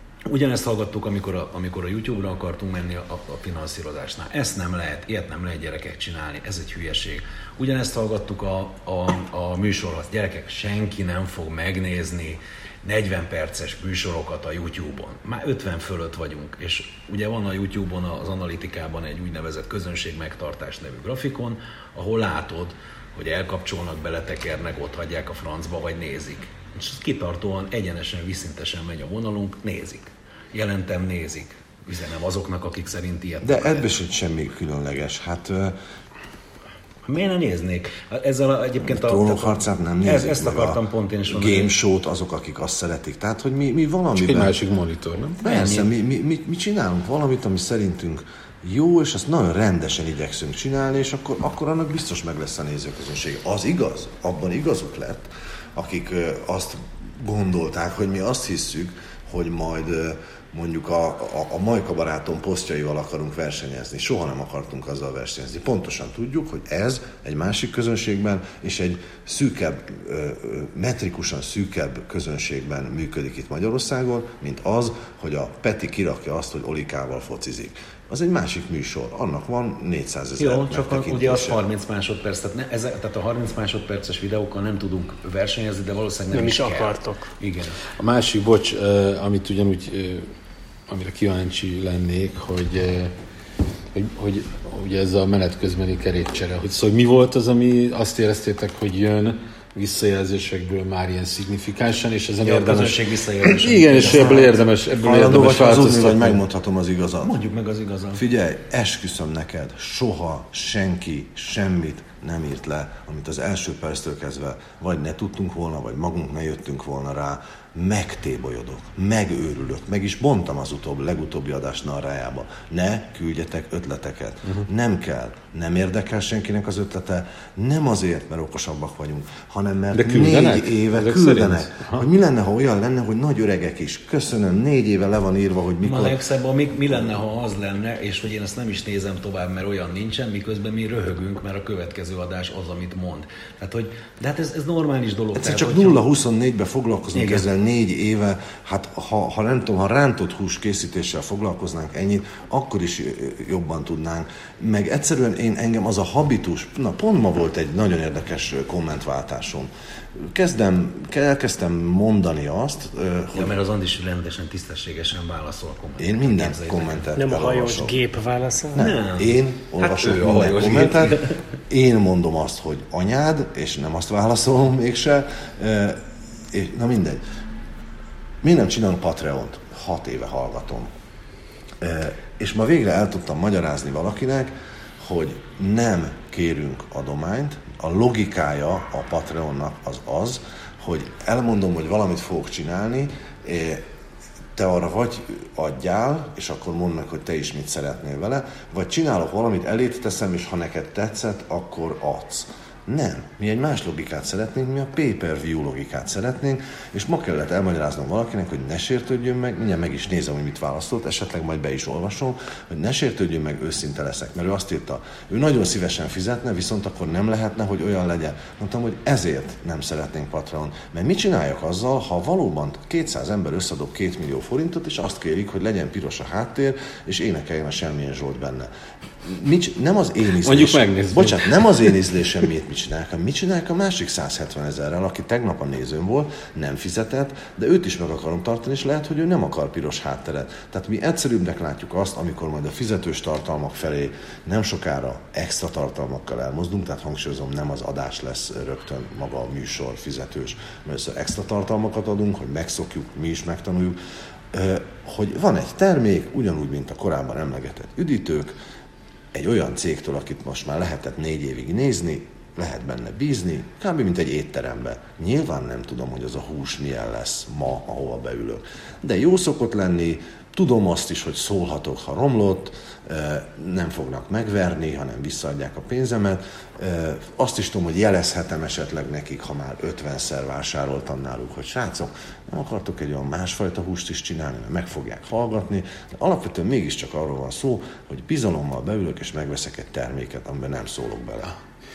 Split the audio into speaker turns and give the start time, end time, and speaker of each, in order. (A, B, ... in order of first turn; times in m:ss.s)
0:00.3-0:33.9 A
0:33.4-0:35.8 B
0:37.0-0:41.7 A
0:38.8-0:44.5 B
0:44.2-0:45.9 C
0:45.4-1:21.6 B
1:20.4-1:27.8 A
1:26.3-1:27.3 D
1:28.0-1:30.3 C
1:30.9-1:33.1 C
1:33.9-1:46.4 C
1:42.4-1:44.5 A
1:44.0-1:47.4 B
1:47.2-1:48.2 A
1:48.2-2:16.2 B
2:09.9-2:12.0 C
2:15.8-2:26.0 A
2:25.4-2:43.6 B
2:27.1-2:27.5 A
2:43.3-2:47.0 A
2:46.0-2:48.0 B
2:47.2-2:48.8 D
2:48.7-2:56.0 B
2:48.8-2:51.4 A
2:56.5-2:57.2 B
2:58.4-3:00.9 B
3:01.8-3:13.8 B
3:14.6-3:48.7 B
3:49.2-4:14.0 B
3:50.4-3:51.8 C
4:14.5-4:18.6 B
4:19.3-4:51.6 B